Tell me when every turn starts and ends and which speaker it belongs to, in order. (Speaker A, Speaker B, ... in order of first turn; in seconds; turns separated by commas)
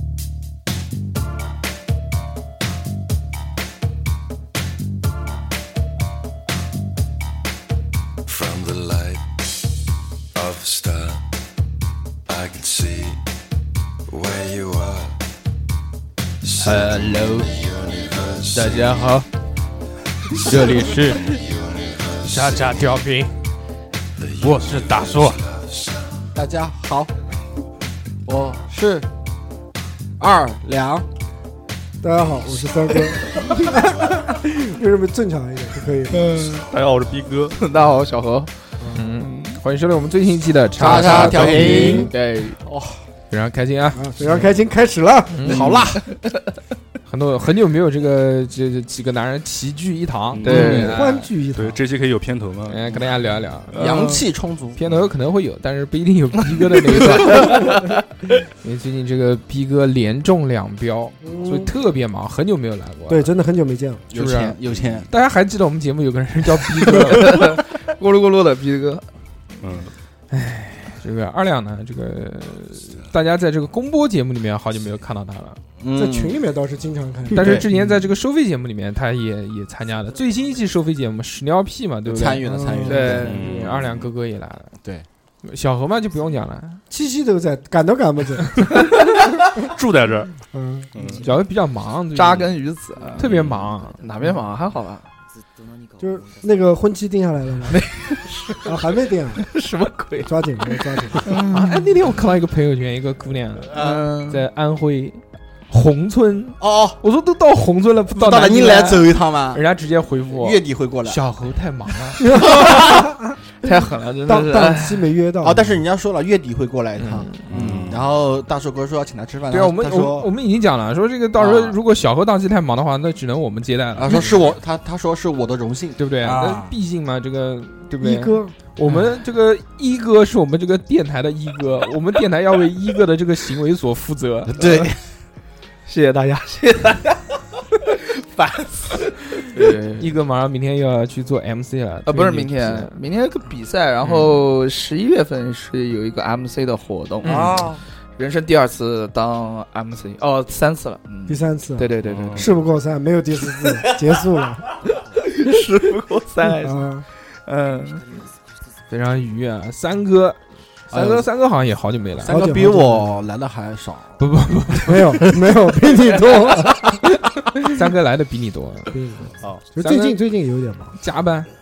Speaker A: 8.3-9.3, Speaker A: 10.3-11.2, Speaker A: 12.3-13.2, Speaker A: 14.1-15.2, Speaker A: 16.4-19.0, Speaker B: 16.6-17.5, Speaker B: 18.5-19.3, Speaker A: 20.3-23.0, Speaker B: 20.4-21.4, Speaker B: 22.3-23.3, Speaker A: 24.2-26.3, Speaker B: 24.4-25.4, Speaker C: 26.4-27.1, Speaker C: 28.3-29.1, Speaker C: 30.2-31.1, Speaker D: 32.0-36.3, Speaker E: 36.1-36.7, Speaker F: 36.7-37.6, Speaker E: 37.6-38.5, Speaker B: 38.9-42.1, Speaker E: 39.2-39.5, Speaker C: 40.8-43.0, Speaker D: 41.1-42.1, Speaker E: 41.1-42.6, Speaker B: 43.3-44.4, Speaker D: 44.0-45.7, Speaker B: 45.3-46.0, Speaker C: 45.4-46.1, Speaker E: 45.5-46.2, Speaker B: 47.1-51.3, Speaker F: 50.3-50.8, Speaker E: 50.5-51.0, Speaker D: 50.5-51.8, Speaker F: 51.5-53.0, Speaker B: 52.7-54.2, Speaker F: 53.7-54.0, Speaker C: 53.8-54.8, Speaker B: 54.8-57.9, Speaker E: 57.5-57.9, Speaker B: 58.6-63.3, Speaker D: 61.2-61.7, Speaker D: 63.1-64.1, Speaker C: 64.1-65.1, Speaker B: 64.1-64.6, Speaker F: 64.7-65.0, Speaker B: 65.1-67.6, Speaker E: 67.1-69.0, Speaker F: 69.6-69.9, Speaker B: 70.3-75.6, Speaker C: 75.8-76.4, Speaker D: 75.9-77.7, Speaker B: 77.3-84.7, Speaker C: 77.4-77.7, Speaker C: 82.0-83.5, Speaker D: 82.4-83.2, Speaker E: 82.9-83.5, Speaker F: 83.2-84.1, Speaker B: 85.4-86.8, Speaker D: 86.9-89.6, Speaker F: 89.6-90.3, Speaker D: 90.5-90.9, Speaker F: 91.0-91.2, Speaker B: 91.1-92.5, Speaker E: 92.1-93.3, Speaker B: 93.2-94.0, Speaker F: 93.2-93.7, Speaker E: 94.0-95.1, Speaker D: 96.0-97.8, Speaker E: 97.7-98.7, Speaker D: 98.6-99.5, Speaker E: 99.4-100.3, Speaker D: 100.2-101.4, Speaker E: 101.3-101.8, Speaker B: 101.4-112.7, Speaker C: 103.8-104.1, Speaker E: 103.8-104.4, Speaker C: 106.6-107.0, Speaker C: 108.1-109.6, Speaker C: 110.3-111.2, Speaker D: 112.2-113.4, Speaker E: 113.6-115.1, Speaker D: 114.2-115.8, Speaker C: 115.4-120.3, Speaker B: 117.0-117.5, Speaker F: 117.5-118.1, Speaker B: 119.5-124.4, Speaker C: 121.4-121.8, Speaker C: 124.0-126.7, Speaker B: 126.0-134.6, Speaker D: 128.0-128.5, Speaker C: 134.5-135.0, Speaker E: 134.6-134.9, Speaker E: 135.9-140.1, Speaker B: 140.0-143.0, Speaker E: 142.1-152.5, Speaker B: 147.2-147.7, Speaker C: 147.3-147.7, Speaker D: 151.3-154.8, Speaker F: 152.0-152.6, Speaker E: 154.9-156.8, Speaker D: 156.4-157.1, Speaker E: 157.5-158.2, Speaker B: 158.9-162.4, Speaker C: 160.9-161.2, Speaker E: 160.9-161.2, Speaker C: 162.2-164.2, Speaker D: 162.2-163.2, Speaker B: 164.2-165.3, Speaker D: 164.9-167.0, Speaker E: 165.8-166.7, Speaker B: 167.6-168.9, Speaker D: 168.9-170.9, Speaker B: 169.8-170.2, Speaker B: 171.0-171.5